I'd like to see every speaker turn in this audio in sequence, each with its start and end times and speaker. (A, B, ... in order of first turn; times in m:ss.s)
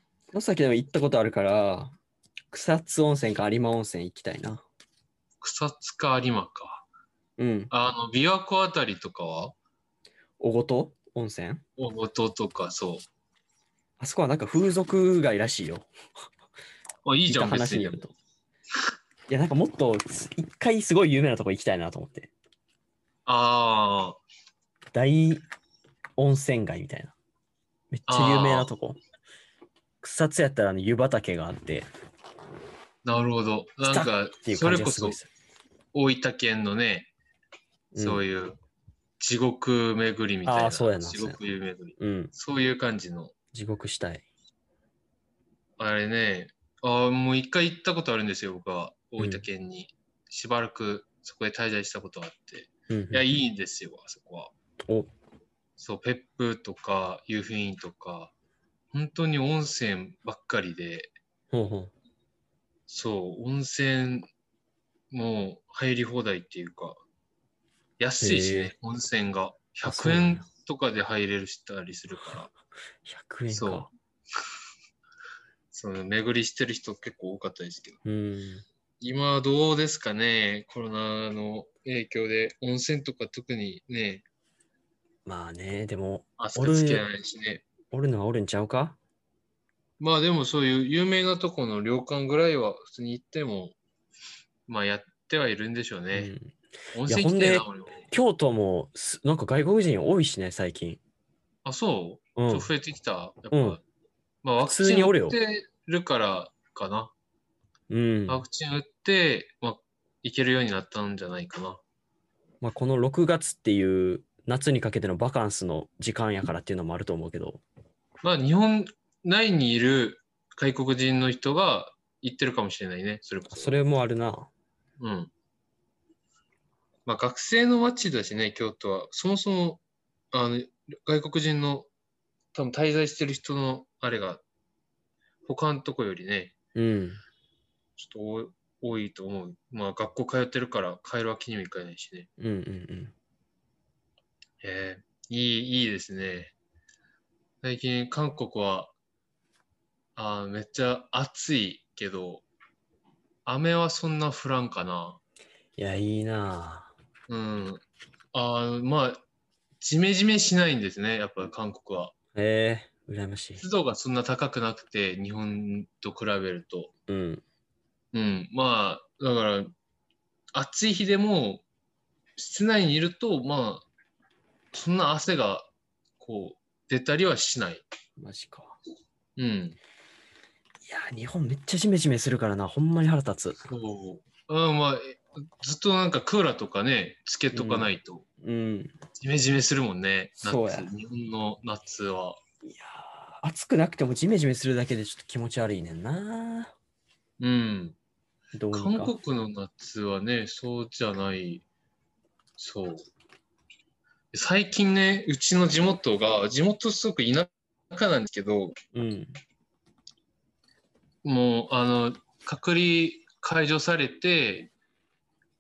0:00.3-0:02.0 A
0:02.5-0:04.6 A
0:05.4-0:06.8 B
0:07.4-0:07.7 A
0:07.7-0:09.5 B
0:10.4-0:11.6 A
0:11.8-0:13.0 B
0:14.0-0:15.9 A
0:17.0-0:18.0 B
0:17.3-0:18.1 A
0:19.3-0:22.3 A
0:23.2-0:24.2 B
0:24.9-0:25.4 A
0:26.2-0:27.1 A
0:27.9-0:29.0 A
0:28.1-0:28.7 B
0:30.0-0:31.9 A
0:33.0-0:35.2 B
0:33.8-0:35.3 A
0:35.9-0:37.1 B
0:37.9-0:38.2 A
0:38.0-0:38.6 B
0:39.2-0:43.3 B
0:40.4-0:41.4 A
0:42.0-0:42.3 A
0:43.5-0:44.2 A
0:45.8-0:54.5 B
0:49.2-0:49.4 A
0:52.9-0:53.2 A
0:54.8-0:55.1 A
0:55.8-0:58.3 B
0:58.9-1:01.1 B
1:01.5-1:01.9 A
1:02.9-1:04.3 B
1:05.1-1:07.0 B
1:08.0-1:12.5 B
1:08.2-1:08.7 A
1:09.8-1:10.4 A
1:13.0-1:13.9 A
1:13.5-1:13.9 B
1:15.7-1:18.0 B
1:18.0-1:18.6 A
1:19.0-1:24.2 B
1:25.2-1:27.0 A
1:26.4-1:27.6 B
1:27.9-1:29.0 A
1:30.0-1:33.8 B
1:34.7-1:36.3 B
1:36.1-1:41.0 A
1:36.9-1:38.0 B
1:41.6-1:43.8 B
1:42.4-1:42.7 A
1:43.5-1:43.8 A
1:44.4-1:47.1 B
1:44.6-1:45.4 A
1:47.9-1:48.4 A
1:48.3-1:51.8 B
1:52.6-1:57.6 A
1:58.2-2:03.8 B
2:03.5-2:04.5 A
2:05.0-2:05.3 B
2:07.0-2:11.9 B
2:12.5-2:14.4 B
2:15.4-2:16.5 B
2:16.7-2:17.2 A
2:18.0-2:22.3 B
2:22.4-2:23.1 A
2:24.6-2:26.5 B
2:27.6-2:28.9 B
2:30.2-2:32.4 B
2:33.4-2:35.2 B
2:35.8-2:36.9 A
2:37.3-2:37.8 B
2:38.3-2:39.2 B
2:39.8-2:42.1 B
2:42.3-2:43.6 A
2:43.6-2:46.9 B
2:47.1-2:47.4 A
2:48.1-2:49.7 B
2:50.5-2:51.6 B
2:52.4-2:53.8 B
2:54.7-2:55.7 B
2:56.2-2:57.8 B
2:58.2-2:58.8 A
2:59.4-2:59.8 B
3:00.8-3:03.6 A
3:03.7-3:08.2 B
3:07.5-3:08.9 A
3:09.2-3:12.4 B
3:10.4-3:10.9 A
3:12.6-3:16.7 A
3:17.4-3:18.0 B
3:18.5-3:19.1 A
3:18.7-3:21.6 B
3:22.6-3:23.0 B
3:24.3-3:28.7 B
3:28.9-3:29.4 A
3:31.2-3:34.7 B